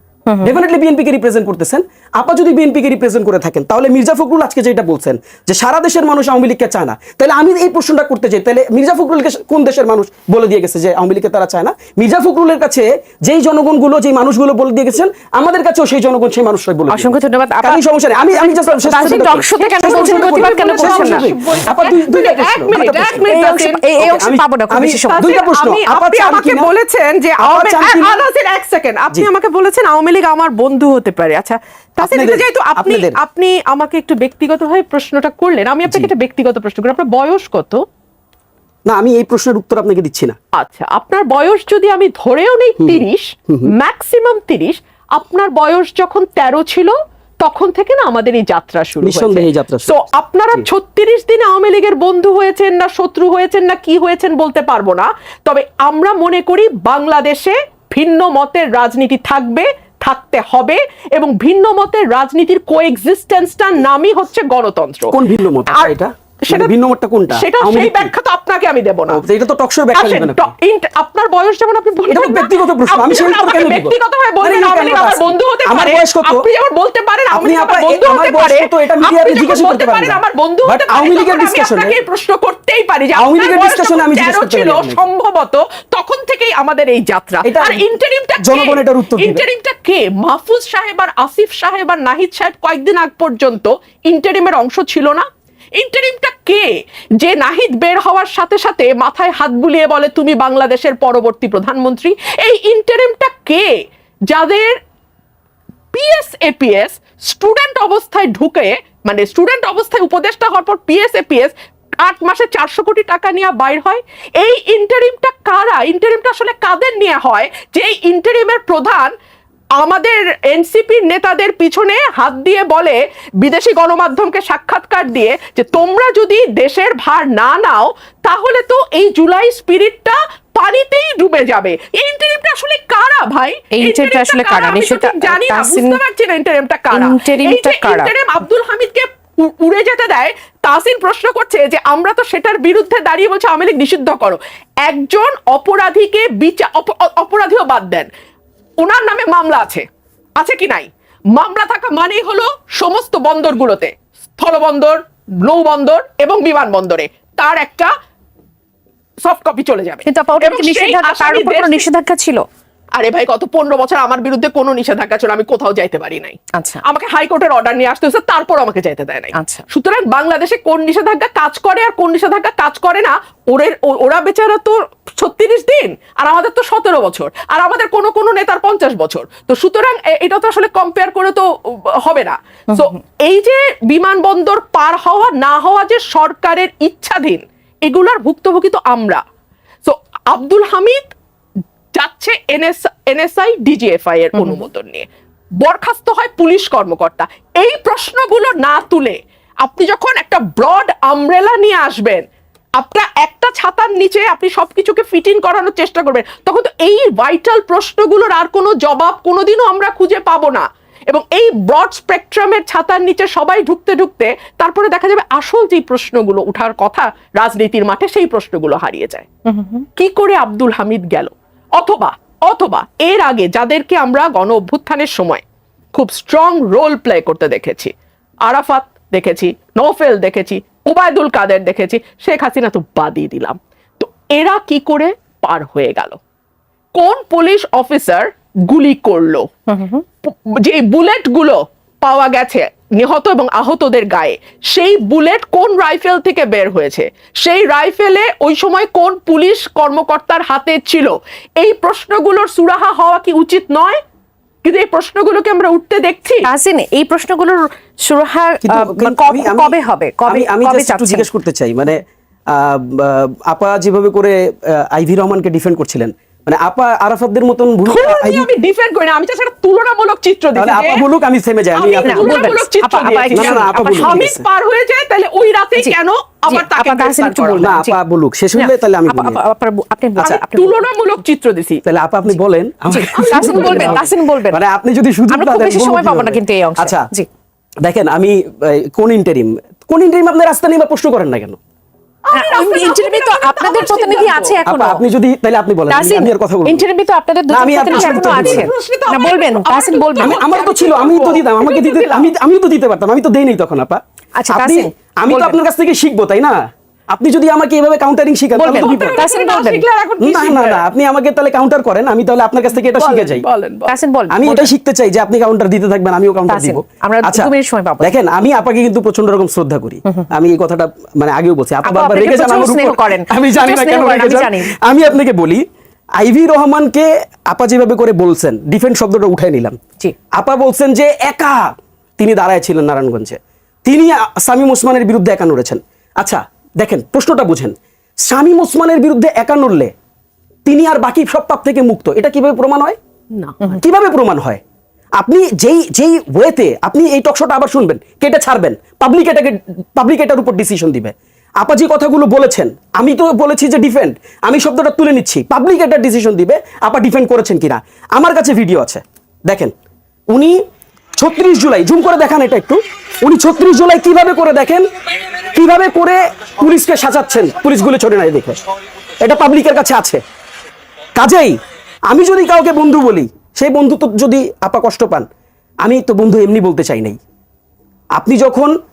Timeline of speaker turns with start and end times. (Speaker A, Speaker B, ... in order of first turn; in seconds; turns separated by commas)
Speaker A: 0.3-0.6, Speaker B: 0.4-23.4, Speaker A: 16.9-21.3, Speaker C: 19.6-24.1, Speaker A: 23.3-25.4, Speaker B: 24.0-26.7, Speaker C: 25.1-37.8, Speaker B: 27.4-28.2, Speaker B: 32.0-33.2, Speaker B: 38.9-40.4, Speaker C: 40.6-65.1, Speaker B: 42.8-43.7, Speaker B: 49.0-50.0, Speaker B: 65.1-68.1, Speaker C: 66.5-66.7, Speaker C: 67.3-69.2, Speaker B: 69.1-70.5, Speaker C: 70.0-104.8, Speaker B: 72.1-76.5, Speaker B: 77.3-82.0, Speaker B: 83.2-85.0, Speaker B: 87.4-87.8, Speaker B: 88.4-89.5, Speaker C: 105.9-119.1, Speaker C: 119.8-148.1, Speaker A: 133.7-136.0, Speaker A: 136.9-138.1, Speaker C: 148.8-149.9, Speaker C: 150.4-157.9, Speaker C: 159.2-161.9, Speaker A: 160.1-162.4, Speaker C: 163.0-189.2, Speaker A: 166.6-166.8, Speaker A: 169.3-169.6, Speaker C: 189.8-191.0, Speaker C: 191.9-195.1, Speaker A: 194.3-194.6, Speaker C: 195.6-202.2, Speaker C: 202.8-219.3, Speaker A: 219.5-219.9, Speaker C: 220.0-227.9, Speaker C: 228.5-236.2, Speaker C: 236.9-239.5, Speaker A: 239.7-240.0, Speaker C: 240.2-254.0, Speaker C: 254.6-256.5, Speaker A: 256.4-261.3, Speaker B: 258.6-262.0, Speaker B: 262.5-268.5, Speaker C: 267.9-271.1, Speaker B: 270.6-272.5, Speaker C: 271.8-277.7, Speaker A: 272.0-274.3, Speaker B: 273.3-274.4, Speaker A: 276.5-278.0, Speaker B: 277.6-279.4, Speaker A: 278.5-280.9, Speaker B: 280.2-280.4, Speaker C: 280.5-281.8, Speaker B: 281.9-287.1, Speaker A: 282.9-284.6, Speaker C: 283.1-284.0, Speaker A: 285.3-287.3, Speaker B: 287.8-291.6, Speaker C: 292.3-294.6, Speaker A: 292.3-295.0, Speaker B: 294.6-296.9, Speaker A: 295.9-300.4, Speaker B: 297.5-298.7, Speaker C: 297.8-302.3, Speaker B: 300.2-306.6, Speaker A: 304.4-305.6, Speaker B: 307.1-309.2, Speaker A: 308.5-309.9, Speaker C: 308.8-310.9, Speaker B: 310.2-313.5, Speaker C: 312.8-314.0, Speaker A: 313.9-314.7, Speaker B: 314.3-325.6, Speaker A: 316.5-318.1, Speaker A: 321.8-324.8, Speaker B: 326.2-329.8, Speaker B: 330.3-339.9, Speaker B: 340.6-343.0, Speaker C: 343.4-343.8, Speaker B: 343.8-344.6, Speaker B: 345.2-359.7, Speaker B: 360.3-360.6, Speaker B: 361.2-364.9, Speaker B: 365.5-368.6, Speaker B: 369.2-370.2, Speaker B: 371.2-371.6, Speaker B: 372.1-375.3, Speaker B: 375.8-377.2, Speaker B: 378.2-378.8